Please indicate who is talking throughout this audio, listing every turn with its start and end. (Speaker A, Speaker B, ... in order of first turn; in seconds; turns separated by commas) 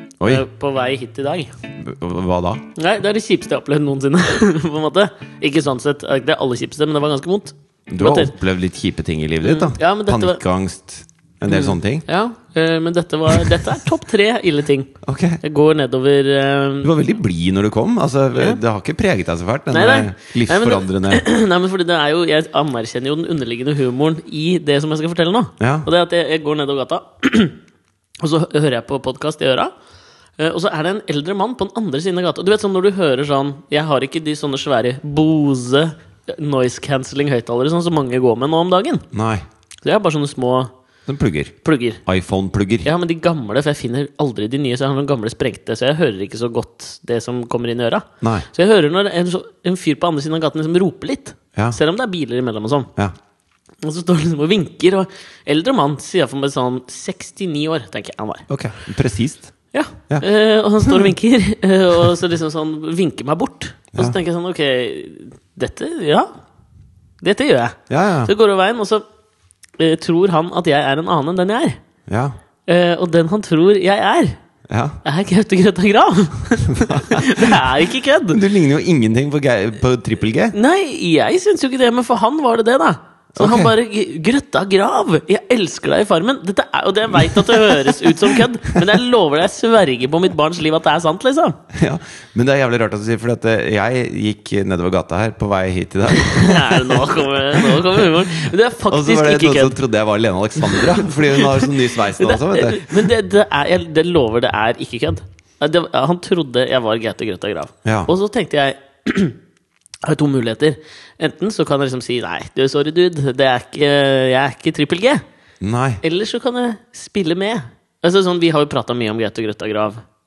Speaker A: 0.2-0.4, Speaker B: 0.2-1.5, Speaker A: 1.8-2.6, Speaker B: 2.7-8.3, Speaker A: 7.9-12.0, Speaker B: 9.4-10.4, Speaker B: 11.5-16.9, Speaker A: 13.3-13.6, Speaker A: 15.0-15.4, Speaker A: 16.8-21.2, Speaker B: 19.7-27.6, Speaker A: 25.6-25.9, Speaker B: 28.2-29.7, Speaker B: 30.4-39.0, Speaker A: 39.1-39.5, Speaker B: 39.8-40.7, Speaker A: 41.1-42.9, Speaker B: 41.6-42.0, Speaker B: 42.8-52.9, Speaker A: 48.2-48.5, Speaker B: 53.8-58.4, Speaker A: 58.5-59.5, Speaker B: 59.7-66.3, Speaker A: 60.8-61.1, Speaker B: 67.2-69.0, Speaker A: 67.9-68.3, Speaker B: 69.8-71.8, Speaker A: 72.1-72.3, Speaker B: 72.7-74.4, Speaker A: 74.7-75.0, Speaker B: 75.0-78.4, Speaker A: 76.6-80.5, Speaker B: 80.5-91.6, Speaker A: 83.3-83.7, Speaker A: 87.2-88.4, Speaker A: 91.7-103.1, Speaker B: 96.1-99.8, Speaker B: 100.7-109.4, Speaker A: 107.8-108.1, Speaker B: 110.0-115.2, Speaker A: 115.6-116.0, Speaker B: 116.0-120.0